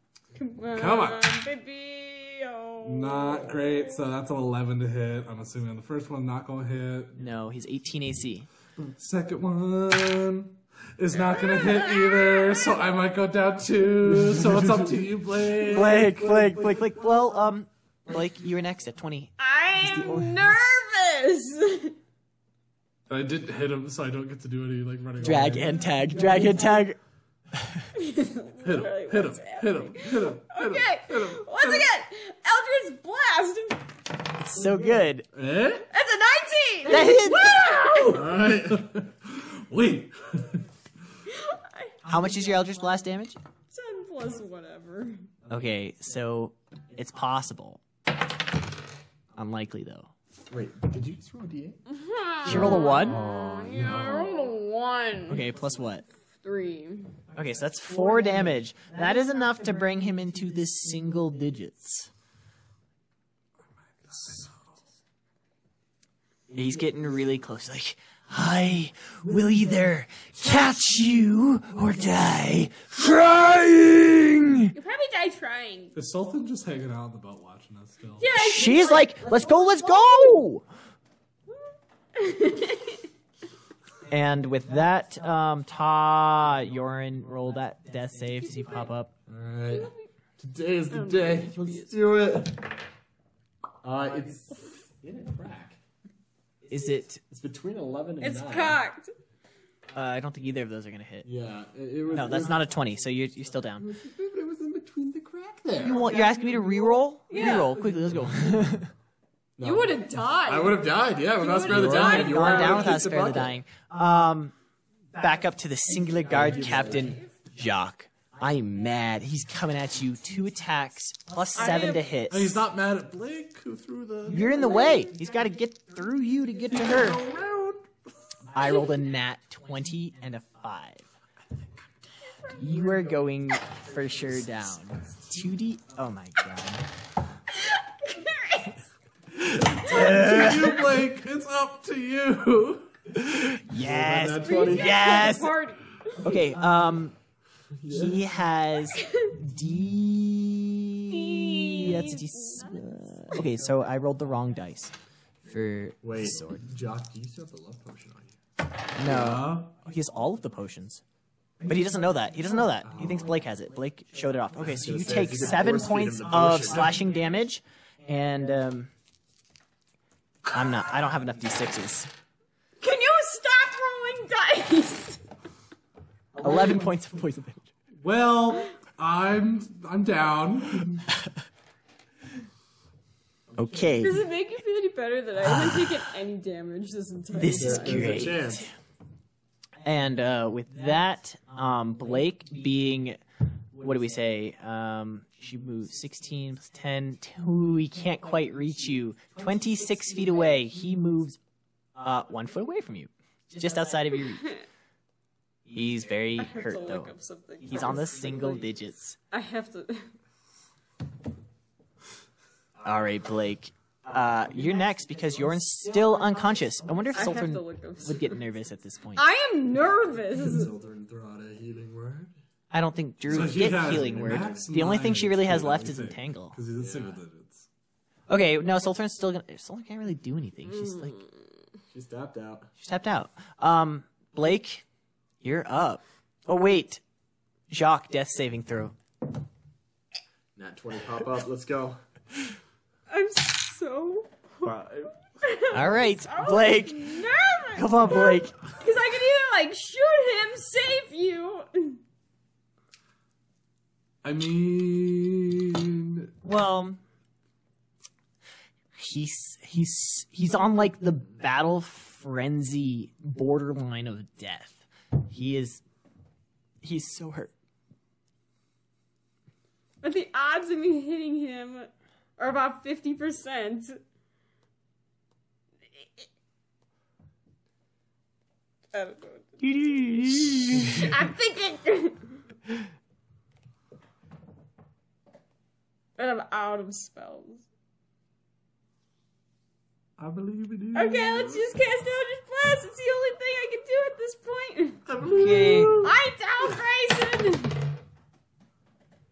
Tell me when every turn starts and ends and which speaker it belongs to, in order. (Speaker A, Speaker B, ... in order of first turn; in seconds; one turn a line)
Speaker A: 0.3-3.9
Speaker B: 0.7-1.4
Speaker B: 2.8-7.2
Speaker C: 7.2-8.5
Speaker B: 8.9-16.1
Speaker A: 11.2-12.7
Speaker C: 15.6-20.6
Speaker A: 19.4-22.0
Speaker B: 23.1-25.8
Speaker C: 25.2-27.0
Speaker C: 27.5-27.9
Speaker A: 27.9-33.8
Speaker B: 28.6-31.9
Speaker C: 34.4-35.3
Speaker B: 35.4-35.9
Speaker A: 35.9-38.2
Speaker C: 36.9-37.7
Speaker B: 37.6-40.6
Speaker D: 38.1-38.8
Speaker A: 41.3-42.0
Speaker C: 42.0-43.4
Speaker A: 43.7-45.3
Speaker C: 45.5-47.8
Speaker C: 49.4-50.1
Speaker D: 50.5-51.8
Speaker A: 51.9-55.5
Speaker C: 52.5-53.3
Speaker B: 52.5-54.5
Speaker C: 55.3-56.0
Speaker A: 56.4-57.2
Speaker C: 57.3-62.1
Speaker B: 64.0-64.6
Speaker C: 66.5-74.7
Speaker A: 74.7-76.0
Speaker B: 76.0-78.3
Speaker A: 78.2-79.2
Speaker C: 78.3-80.7
Speaker A: 82.2-83.0
Speaker C: 84.1-89.1
Speaker D: 89.3-92.7
Speaker A: 89.7-90.1
Speaker A: 90.9-91.9
Speaker D: 93.8-95.8
Speaker C: 96.7-97.2
Speaker D: 97.3-98.8
Speaker A: 98.2-99.1
Speaker C: 99.9-101.3
Speaker D: 101.2-102.6
Speaker C: 102.1-103.9
Speaker D: 103.8-106.1
Speaker C: 105.8-108.9
Speaker A: 107.3-107.8
Speaker D: 108.1-108.6
Speaker D: 109.6-113.5
Speaker A: 109.6-113.1
Speaker C: 111.6-114.5
Speaker C: 115.2-122.6
Speaker D: 116.3-117.2
Speaker A: 116.8-117.3
Speaker A: 121.5-122.1
Speaker B: 122.3-124.6
Speaker C: 124.3-127.2
Speaker B: 126.7-127.9
Speaker C: 128.5-131.1
Speaker C: 132.6-136.9
Speaker A: 137.5-138.8
Speaker C: 139.3-140.9
Speaker B: 139.7-143.0
Speaker A: 139.9-140.3
Speaker C: 143.2-145.6
Speaker D: 143.7-145.3
Speaker A: 144.4-146.4
Speaker C: 146.2-147.2
Speaker D: 147.8-148.2
Speaker C: 147.9-154.9
Speaker A: 148.9-149.3
Speaker A: 151.1-153.0
Speaker C: 155.5-156.6
Speaker D: 156.0-158.3
Speaker C: 158.9-161.0
Speaker B: 159.0-159.7
Speaker C: 161.6-168.9
Speaker D: 162.8-163.4
Speaker D: 164.6-167.0
Speaker C: 170.5-172.1
Speaker A: 172.8-175.2
Speaker C: 176.4-177.7
Speaker B: 178.0-181.1
Speaker C: 183.5-184.2
Speaker A: 184.0-188.3
Speaker C: 185.4-186.1
Speaker C: 187.3-188.7
Speaker D: 187.6-188.7
Speaker C: 189.8-193.2
Speaker C: 193.7-201.4
Speaker C: 202.0-204.6
Speaker A: 204.4-204.6
Speaker C: 205.7-209.2
Speaker A: 206.4-208.4
Speaker A: 209.3-210.1
Speaker C: 212.8-219.3
Speaker A: 217.1-218.4
Speaker A: 219.2-220.7
Speaker D: 220.3-222.3
Speaker C: 222.7-226.6
Speaker B: 223.3-227.7
Speaker D: 223.3-224.7
Speaker D: 226.8-227.2
Speaker C: 228.3-231.2
Speaker A: 230.8-231.3
Speaker D: 231.9-232.7
Speaker C: 232.8-234.8
Speaker C: 235.4-237.0
Speaker C: 237.7-238.9
Speaker D: 240.6-242.0
Speaker A: 243.1-252.0
Speaker B: 244.6-245.1
Speaker C: 245.7-247.2
Speaker C: 247.8-248.6
Speaker B: 254.2-256.3
Speaker C: 256.4-257.0
Speaker C: 258.9-265.8
Speaker C: 266.8-267.5
Speaker A: 270.0-274.0
Speaker A: 276.0-276.3
Speaker A: 278.9-279.5
Speaker C: 279.6-281.1
Speaker A: 280.8-282.4
Speaker A: 286.2-287.6
Speaker B: 290.2-291.6
Speaker A: 290.9-295.0
Speaker B: 295.1-296.1
Speaker C: 295.3-295.9
Speaker A: 296.0-297.8